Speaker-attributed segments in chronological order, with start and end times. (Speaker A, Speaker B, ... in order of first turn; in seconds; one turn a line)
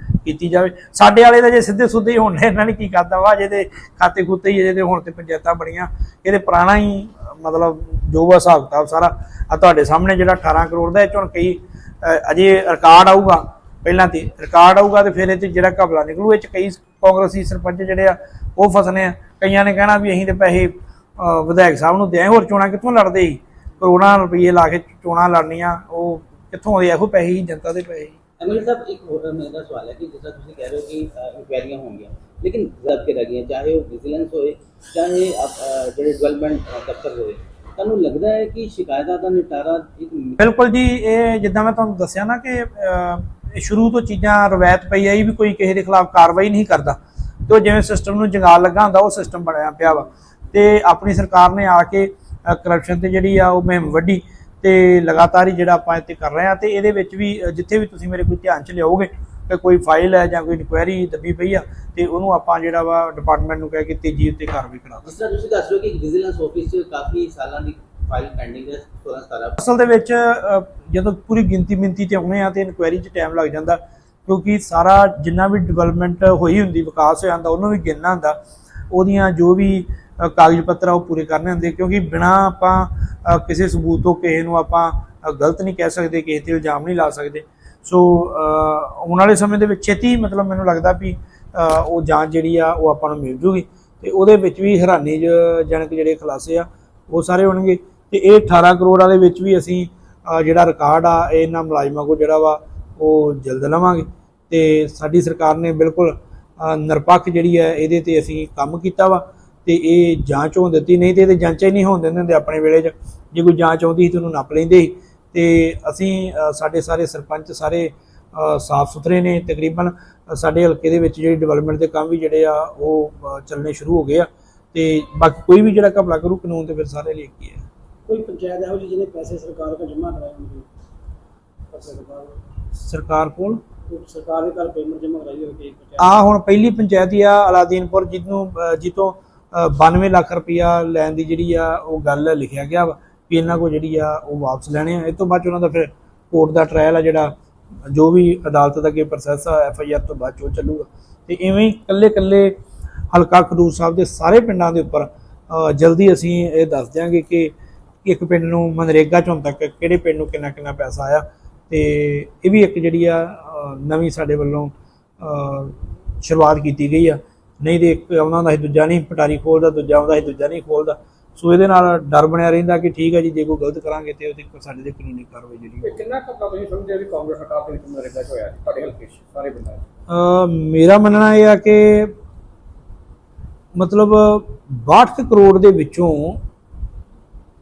Speaker A: 0.2-28.2
Speaker B: 28.4-40.4
Speaker A: 40.4-65.1
Speaker B: 65.0-69.6
Speaker A: 69.6-78.4
Speaker A: 78.9-127.6
Speaker C: 128.1-130.6
Speaker C: 131.7-132.3
Speaker A: 132.8-133.6
Speaker C: 133.9-136.0
Speaker A: 136.0-147.3
Speaker A: 147.9-152.5
Speaker A: 153.1-157.5
Speaker A: 158.0-175.9
Speaker D: 175.8-179.8
Speaker A: 180.1-182.1
Speaker A: 183.7-186.4